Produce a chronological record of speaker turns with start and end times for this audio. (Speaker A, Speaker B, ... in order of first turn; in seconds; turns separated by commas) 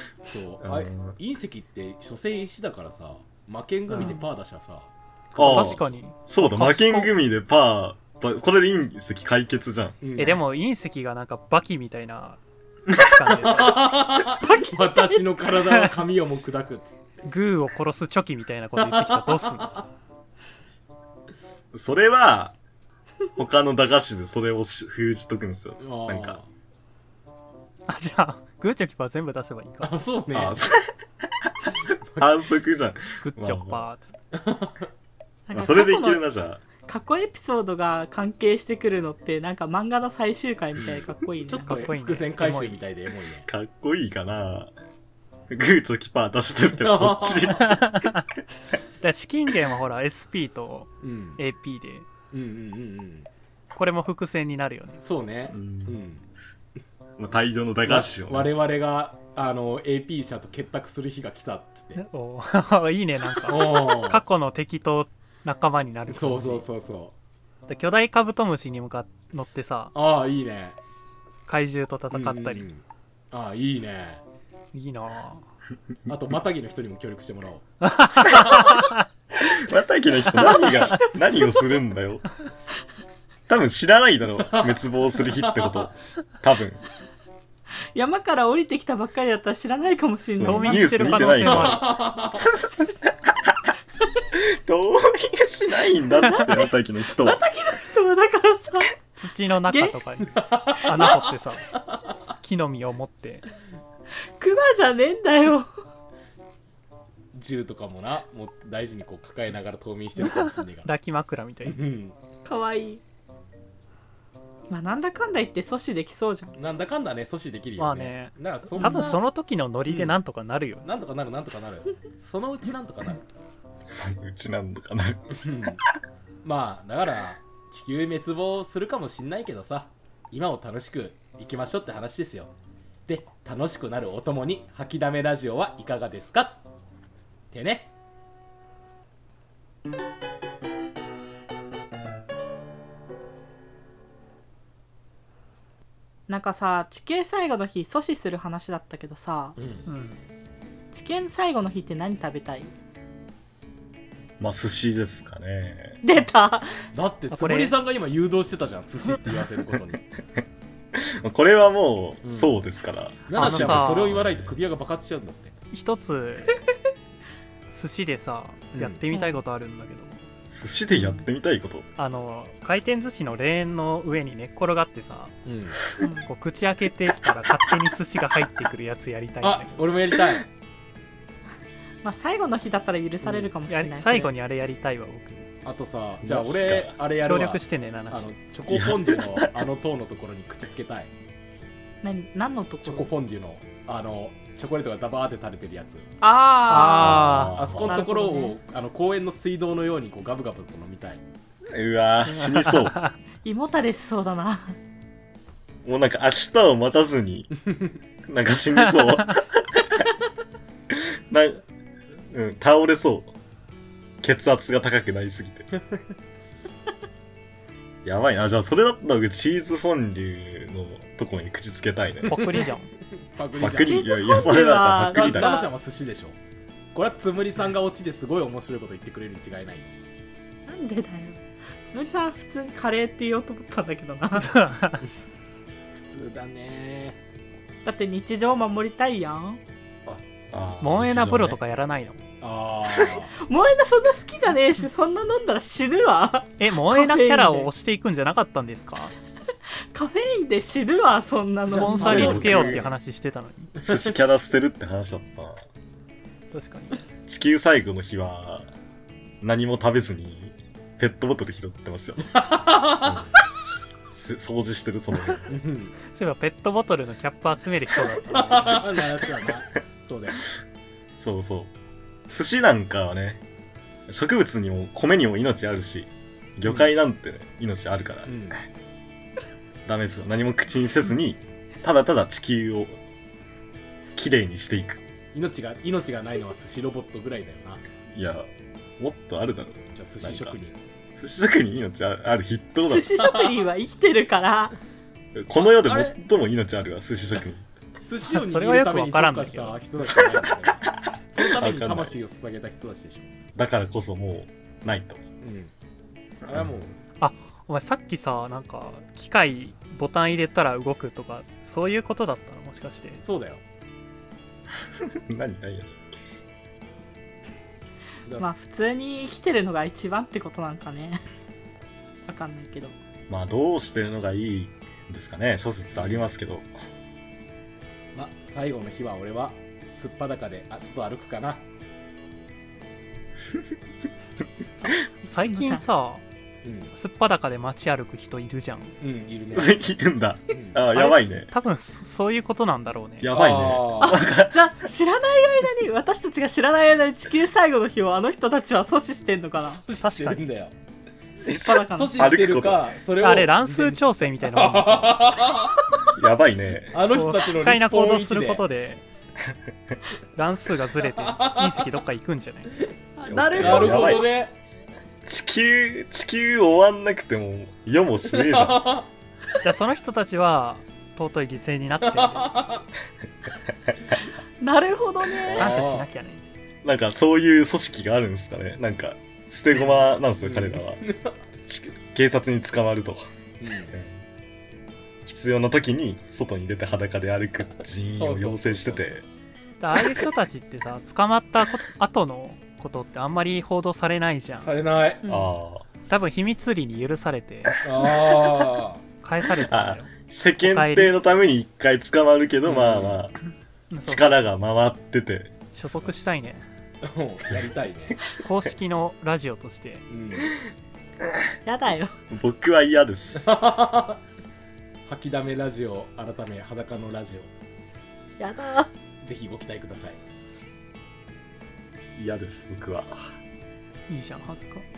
Speaker A: 0.3-5.9, Speaker B: 0.6-1.1, Speaker C: 3.9-4.2, Speaker B: 5.3-10.0, Speaker C: 5.4-7.1, Speaker A: 10.0-10.4, Speaker C: 10.2-13.9, Speaker A: 13.3-17.0, Speaker D: 14.4-15.2, Speaker C: 17.2-19.8, Speaker A: 18.8-19.8, Speaker B: 21.7-22.6, Speaker B: 23.4-26.4, Speaker A: 25.8-26.5, Speaker C: 27.9-30.0, Speaker A: 29.8-30.6, Speaker B: 30.3-31.5, Speaker A: 32.1-32.4, Speaker B: 32.2-33.8, Speaker C: 33.2-34.1, Speaker A: 34.3-34.9, Speaker D: 35.5-36.2, Speaker B: 35.5-36.6, Speaker D: 36.8-41.9, Speaker A: 41.4-43.5, Speaker C: 41.6-42.8, Speaker B: 43.5-44.7, Speaker B: 45.5-48.1, Speaker A: 46.8-47.6, Speaker C: 47.5-48.3, Speaker C: 49.0-52.0, Speaker A: 51.0-51.4, Speaker A: 52.3-53.3, Speaker C: 53.7-55.0, Speaker A: 55.0-56.2, Speaker B: 55.5-56.0, Speaker B: 57.2-58.5, Speaker A: 57.9-62.0, Speaker C: 61.9-66.7, Speaker A: 63.4-64.2, Speaker A: 66.1-67.1, Speaker C: 67.7-69.9, Speaker A: 69.9-70.8, Speaker C: 71.5-72.7, Speaker A: 72.1-74.2, Speaker C: 74.7-75.4, Speaker A: 76.1-77.7, Speaker C: 77.8-79.0, Speaker A: 78.3-78.7, Speaker B: 79.4-82.2, Speaker C: 80.4-81.0, Speaker B: 83.5-86.8, Speaker A: 84.4-85.9, Speaker D: 87.9-91.3, Speaker B: 90.3-93.7, Speaker C: 90.4-92.0, Speaker A: 91.2-92.5, Speaker B: 94.3-97.4, Speaker D: 96.1-98.9, Speaker C: 99.2-101.7, Speaker D: 99.7-100.0, Speaker A: 100.3-101.2, Speaker C: 102.4-103.5, Speaker D: 104.4-105.7, Speaker A: 107.3-110.9, Speaker C: 110.2-111.8, Speaker A: 111.7-112.1, Speaker D: 112.4-113.0, Speaker D: 114.7-116.5, Speaker A: 116.5-119.2, Speaker C: 117.8-120.9, Speaker D: 118.8-119.2, Speaker A: 119.9-120.1, Speaker A: 120.8-123.2, Speaker B: 123.8-125.8, Speaker A: 125.3-125.8, Speaker A: 126.4-132.5, Speaker A: 133.1-136.6, Speaker A: 137.5-137.9, Speaker D: 146.3-149.6, Speaker A: 149.6-149.8, Speaker C: 149.8-150.2, Speaker D: 150.9-152.7, Speaker B: 154.4-156.0, Speaker D: 156.0-156.8, Speaker A: 156.9-160.0, Speaker C: 157.3-157.8, Speaker B: 160.9-164.6, Speaker A: 162.2-162.6, Speaker A: 163.2-165.6, Speaker C: 163.3-164.1, Speaker C: 165.7-166.6, Speaker C: 167.7-170.2, Speaker A: 168.7-169.0, Speaker D: 169.1-169.4, Speaker B: 170.5-171.8, Speaker D: 170.9-171.2, Speaker C: 172.0-175.3, Speaker A: 175.4-175.8, Speaker D: 176.0-176.3, Speaker C: 176.2-179.9, Speaker A: 179.4-180.5, Speaker D: 182.0-184.3, Speaker A: 183.2-183.5, Speaker C: 183.7-185.5, Speaker A: 185.6-191.1, Speaker B: 186.2-186.9, Speaker C: 187.2-188.3, Speaker B: 188.7-189.6, Speaker D: 192.0-193.1, Speaker A: 192.8-196.1, Speaker D: 196.2-197.3, Speaker C: 196.7-197.7, Speaker B: 196.9-198.0, Speaker A: 197.3-201.2, Speaker D: 197.8-198.6, Speaker B: 201.7-203.0, Speaker C: 202.3-203.1, Speaker D: 203.4-204.8, Speaker B: 205.8-207.5, Speaker A: 207.7-208.0, Speaker B: 208.3-210.1, Speaker C: 209.0-209.3, Speaker B: 210.9-211.6, Speaker B: 212.3-213.3, Speaker B: 214.2-215.8, Speaker B: 218.0-222.5, Speaker C: 222.2-222.9, Speaker A: 222.3-224.1, Speaker B: 223.6-225.7, Speaker D: 223.6-225.7, Speaker A: 225.0-226.4, Speaker A: 226.9-229.9, Speaker D: 230.7-234.6, Speaker C: 234.3-235.0, Speaker A: 235.9-237.2, Speaker D: 237.8-239.6, Speaker B: 240.5-241.6, Speaker C: 240.8-242.2, Speaker A: 242.4-243.3, Speaker D: 243.3-247.7, Speaker C: 246.6-249.1, Speaker D: 249.9-252.5, Speaker A: 251.6-252.9, Speaker C: 251.7-253.7, Speaker B: 252.0-252.8, Speaker A: 253.8-254.2, Speaker B: 253.8-255.6, Speaker C: 256.5-257.0, Speaker B: 257.3-258.7, Speaker B: 259.4-262.4, Speaker A: 262.4-263.3, Speaker B: 263.0-263.3, Speaker B: 264.1-265.6, Speaker A: 265.5-265.9, Speaker C: 266.1-269.2, Speaker A: 268.3-270.5, Speaker B: 271.2-271.7, Speaker B: 272.3-273.4, Speaker B: 274.1-278.3, Speaker A: 276.6-276.9, Speaker A: 278.2-278.6, Speaker B: 279.9-283.0, Speaker B: 284.1-285.0, Speaker A: 285.3-287.8, Speaker B: 288.1-290.6, Speaker A: 289.9-290.8, Speaker B: 291.1-293.1, Speaker D: 292.8-294.7, Speaker B: 295.3-297.6, Speaker A: 295.6-296.2, Speaker A: 297.9-303.3, Speaker C: 298.3-299.8, Speaker B: 300.2-300.7, Speaker B: 301.4-302.2, Speaker B: 303.6-305.2, Speaker A: 305.4-305.7, Speaker B: 306.4-306.9, Speaker A: 306.4-306.9, Speaker C: 307.2-313.2, Speaker A: 313.2-313.6, Speaker B: 314.8-315.9, Speaker D: 318.4-321.2, Speaker D: 322.3-322.9, Speaker B: 323.3-326.7, Speaker A: 325.9-326.3, Speaker A: 328.1-331.6, Speaker C: 334.8-336.2, Speaker D: 335.3-335.8, Speaker A: 336.6-336.9, Speaker C: 336.9-338.9, Speaker A: 339.0-339.8, Speaker B: 339.5-341.5, Speaker A: 340.5-340.9, Speaker C: 340.9-343.7, Speaker B: 343.2-344.5, Speaker A: 343.2-344.2, Speaker D: 344.0-349.8, Speaker A: 349.6-350.7, Speaker C: 350.0-350.4, Speaker D: 351.4-352.3, Speaker B: 351.4-352.9, Speaker A: 351.7-355.8, Speaker C: 353.2-355.4, Speaker B: 356.1-357.0, Speaker A: 356.9-358.6, Speaker C: 357.1-359.0, Speaker C: 360.3-362.8, Speaker A: 361.2-361.8, Speaker D: 363.2-364.2, Speaker B: 363.2-364.2, Speaker A: 363.6-364.5, Speaker B: 365.2-368.8, Speaker A: 368.3-369.1, Speaker C: 369.6-372.6, Speaker A: 372.0-372.8, Speaker D: 374.6-375.7, Speaker A: 375.4-376.1, Speaker C: 375.5-376.4, Speaker B: 376.8-381.0, Speaker A: 379.7-381.4, Speaker B: 381.6-383.3, Speaker A: 383.6-383.9, Speaker B: 383.9-384.2, Speaker B: 385.2-389.2, Speaker A: 388.1-389.1, Speaker C: 389.8-394.7, Speaker A: 394.6-395.3, Speaker B: 395.3-395.8, Speaker C: 396.1-397.9, Speaker A: 397.8-399.0, Speaker C: 399.2-401.2, Speaker B: 399.6-403.4, Speaker A: 402.6-403.2, Speaker C: 403.9-404.3, Speaker B: 404.0-406.1, Speaker C: 405.7-406.6, Speaker A: 407.0-408.2, Speaker C: 408.3-410.0, Speaker A: 410.1-410.6, Speaker D: 411.6-412.1, Speaker B: 412.3-413.5, Speaker A: 413.4-414.2, Speaker A: 415.1-417.5, Speaker D: 418.4-418.9, Speaker A: 419.2-420.2, Speaker B: 422.1-423.4, Speaker C: 424.1-424.8